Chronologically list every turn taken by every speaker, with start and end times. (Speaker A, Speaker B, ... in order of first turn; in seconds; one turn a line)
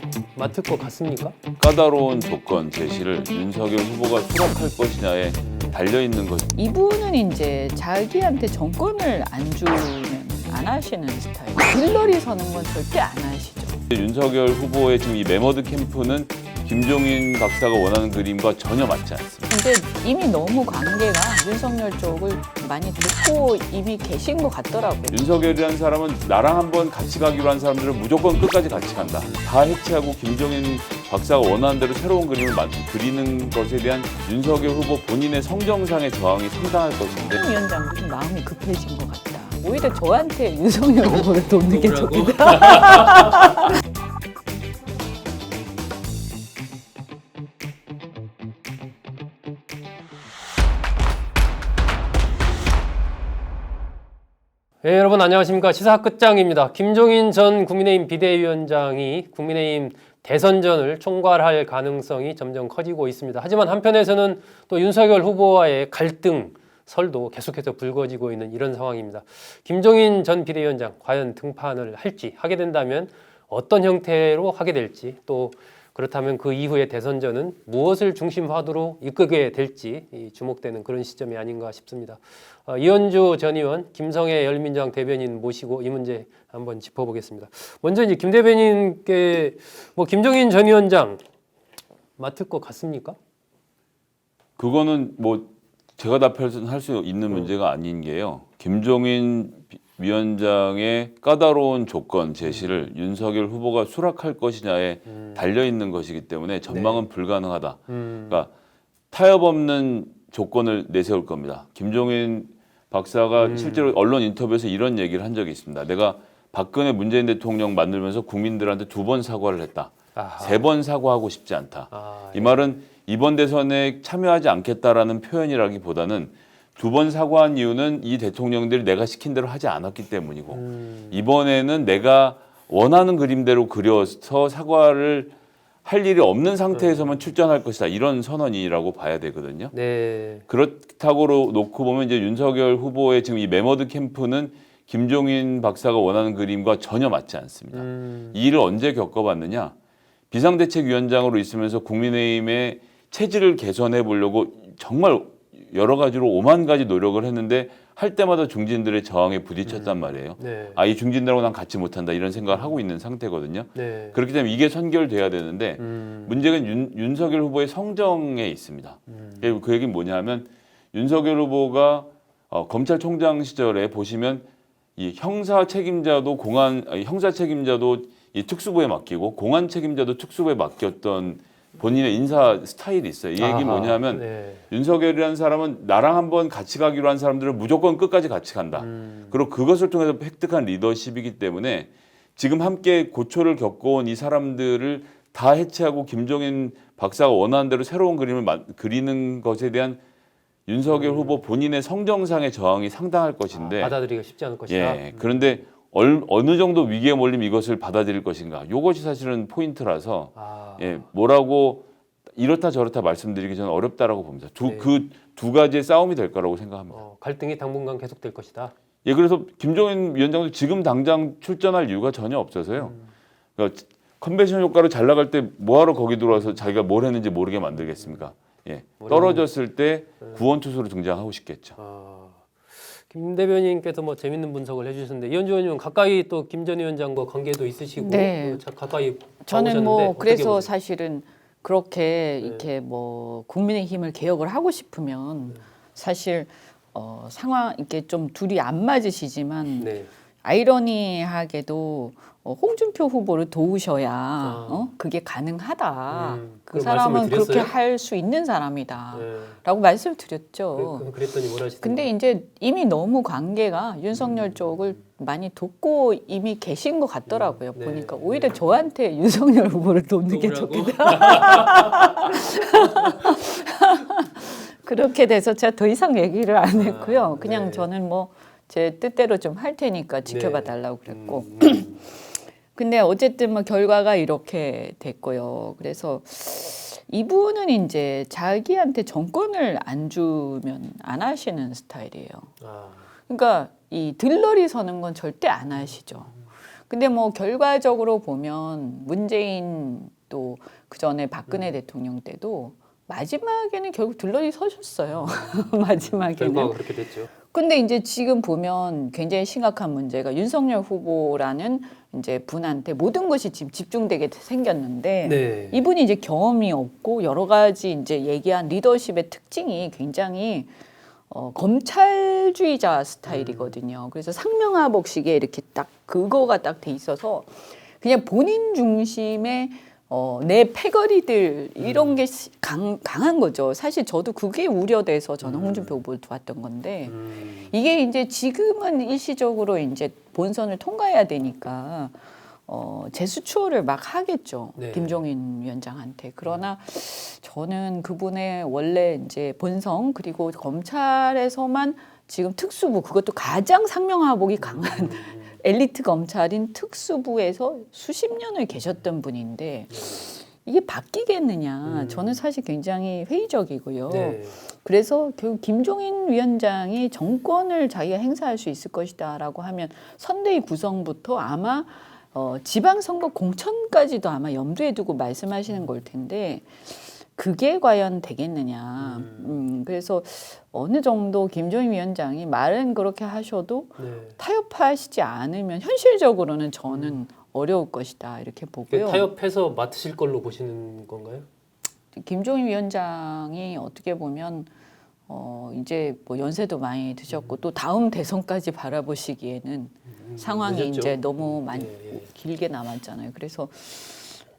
Speaker A: 0.3-1.3
Speaker B: 1.6-6.5
Speaker A: 5.4-5.8
Speaker C: 6.5-13.8
Speaker B: 13.9-19.5
Speaker C: 19.5-25.2
Speaker B: 25.1-37.4
Speaker A: 29.1-29.5
Speaker C: 37.3-43.6
Speaker A: 39.7-39.9
Speaker A: 41.0-43.5
Speaker A: 54.8-91.2
Speaker A: 92.2-93.2
Speaker B: 94.6-108.5
Speaker A: 102.4-102.8
Speaker A: 105.1-105.4
Speaker A: 106.7-107.1
Speaker A: 107.9-108.4
Speaker B: 109.1-135.3
Speaker A: 113.4-113.9
Speaker A: 120.1-120.6
Speaker A: 121.9-122.7
Speaker A: 130.5-131.2
Speaker B: 135.8-139.7
Speaker A: 136.7-137.3
Speaker A: 139.7-140.4
Speaker B: 140.5-149.7
Speaker A: 147.7-148.3
Speaker B: 150.3-200.0
Speaker A: 159.6-160.8
Speaker A: 162.5-162.8
Speaker A: 163.7-164.2
Speaker A: 165.8-166.3
Speaker A: 169.1-169.6
Speaker A: 183.4-184.7
Speaker A: 188.8-189.4
Speaker B: 200.7-204.0
Speaker A: 200.8-201.4
Speaker A: 203.5-205.6
Speaker B: 204.7-216.9
Speaker A: 210.3-211.0
Speaker A: 214.6-214.9
Speaker A: 216.9-218.7
Speaker B: 219.0-222.9
Speaker A: 222.8-223.1
Speaker B: 223.6-231.8
Speaker A: 227.9-228.2
Speaker A: 229.0-229.5
Speaker A: 231.8-240.7
Speaker C: 238.0-238.6
Speaker C: 239.4-261.1
Speaker A: 242.4-242.7
Speaker A: 249.8-250.1
Speaker A: 254.4-254.9
Speaker A: 256.1-257.7
Speaker A: 259.1-259.6
Speaker A: 260.7-262.1
Speaker C: 261.8-282.1
Speaker A: 264.1-264.8
Speaker A: 267.3-268.8
Speaker A: 270.3-273.4
Speaker A: 276.7-277.9
Speaker A: 280.2-282.0
Speaker C: 282.7-292.5
Speaker A: 292.6-293.1
Speaker C: 293.3-296.3
Speaker A: 295.8-296.4
Speaker C: 296.9-320.7
Speaker A: 305.1-307.3
Speaker A: 315.2-315.8
Speaker C: 321.3-389.3
Speaker A: 323.2-323.8
Speaker A: 331.8-332.2
Speaker A: 335.4-336.0
Speaker A: 337.1-337.7
Speaker A: 344.8-345.2
Speaker A: 354.6-355.6
Speaker A: 359.9-360.2
Speaker A: 361.8-362.4
Speaker A: 364.1-364.6
Speaker A: 379.0-379.6
Speaker A: 384.0-384.4
Speaker A: 386.9-387.2
Speaker A: 388.9-391.5
Speaker C: 392.1-394.7
Speaker C: 395.3-404.4
Speaker A: 397.3-397.6
Speaker A: 400.1-402.3